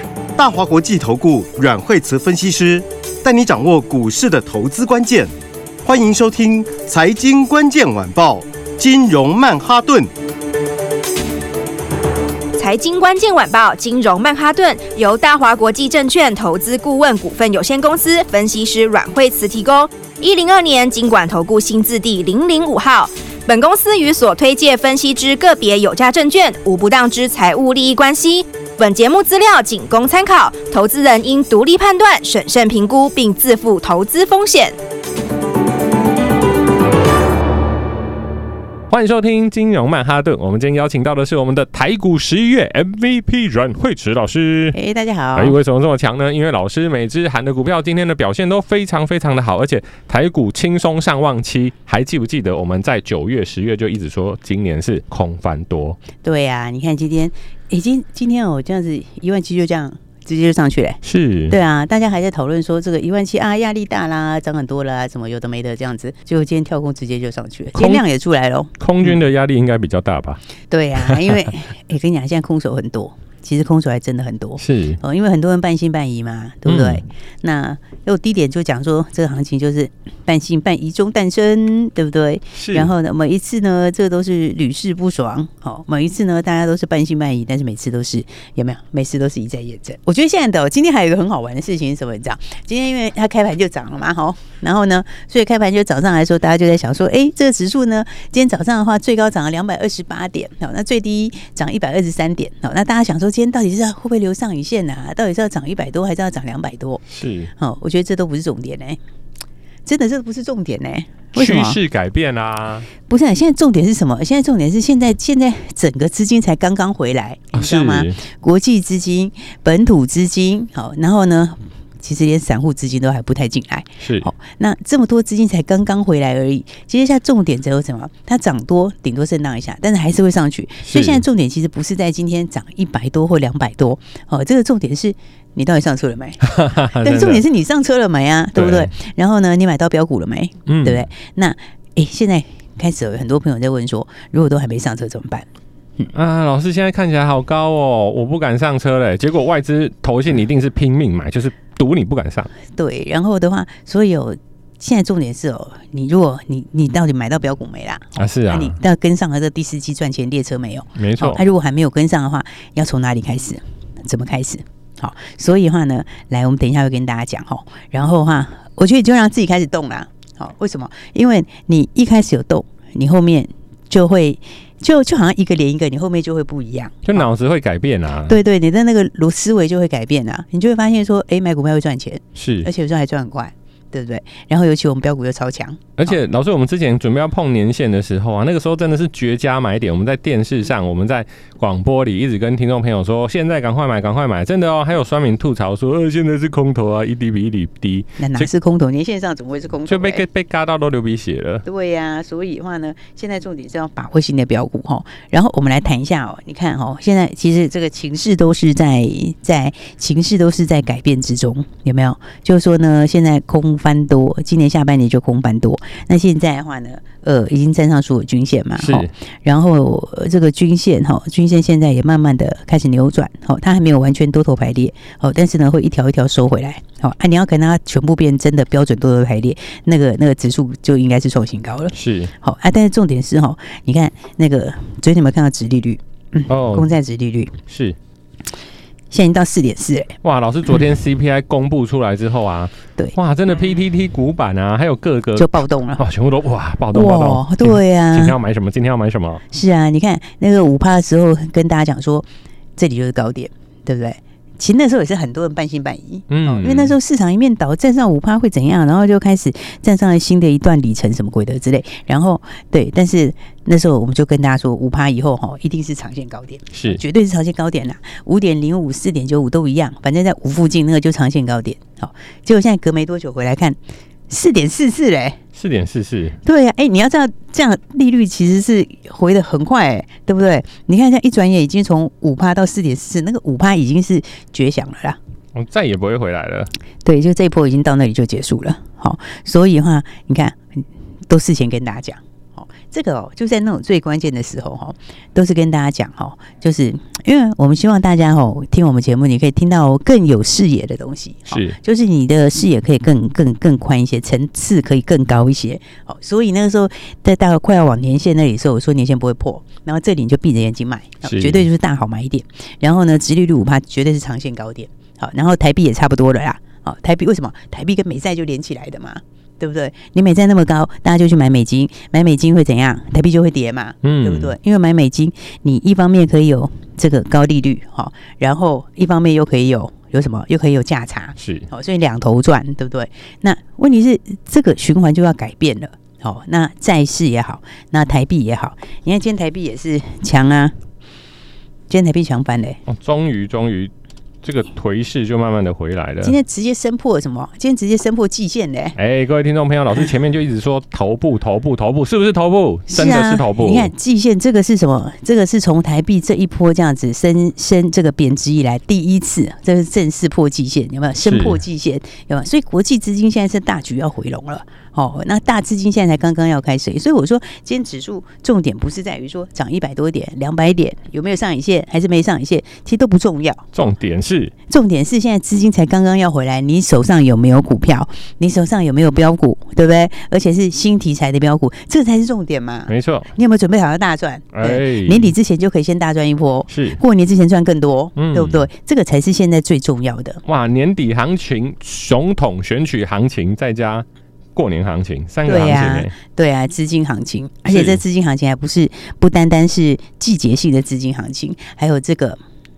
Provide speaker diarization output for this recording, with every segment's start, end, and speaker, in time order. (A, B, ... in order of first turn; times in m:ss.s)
0:00.4-0:05.3 A
0:05.8-0:10.1 A
0:12.6-0:34.8 B
0:38.9-0:44.8 C
0:44.7-0:45.6 D
0:45.4-0:56.0 C
0:56.2-1:08.7 D
1:01.0-1:01.6 C
1:07.8-1:08.0 C
1:08.8-1:10.4 C
1:10.7-1:47.0 D
1:11.0-1:11.2 C
1:14.6-1:15.0 C
1:16.7-1:17.0 C
1:22.6-1:22.9 C
1:47.1-1:47.5 C
1:47.6-1:49.0 D
1:49.8-1:51.8 D
1:51.4-1:52.9 C
1:53.1-2:16.4 D
1:57.5-1:58.2 C
2:04.0-2:04.3 C
2:10.8-2:11.2 C
2:16.4-2:17.4 C
2:17.0-2:25.5 D
2:18.6-2:18.9 C
2:20.7-2:21.1 C
2:26.1-2:32.5 C
2:32.8-2:57.2 D
2:38.2-2:38.8 C
2:41.0-2:41.4 C
2:57.0-2:58.4 C
2:58.3-3:06.1 D
3:02.4-3:02.7 C
3:06.0-3:18.5 C
3:18.2-3:20.2 D
3:19.8-3:21.6 C
3:21.6-3:57.5 D
3:38.8-3:39.1 C
3:51.9-3:52.3 C
3:56.5-3:56.9 C
3:57.7-3:58.0 C
3:59.1-4:00.2 D
4:00.2-4:09.4 C
4:05.4-4:06.0 D
4:06.9-4:08.4 D
4:09.5-4:33.8 D
4:16.3-4:17.0 C
4:26.7-4:27.0 C
4:34.3-4:35.4 D
4:35.6-4:36.4 C
4:36.4-4:45.2 D
4:45.6-4:46.7 C
4:47.0-5:40.8 D
5:01.5-5:01.8 C
5:11.2-5:11.7 C
5:24.0-5:24.6 C
5:31.4-5:31.7 C
5:41.9-5:42.8 D
5:42.9-5:43.9 C
5:44.4-5:46.4 C
5:46.2-5:49.0 D
5:49.0-5:53.9 C
5:52.9-6:13.8 D
6:01.2-6:01.6 C
6:13.8-6:14.5 C
6:14.7-6:30.4 D
6:22.9-6:23.3 C
6:24.5-6:25.3 C
6:26.7-6:27.0 C
6:28.2-6:28.7 C
6:30.5-6:36.1 C
6:35.5-6:42.4 D
6:37.7-6:38.0 C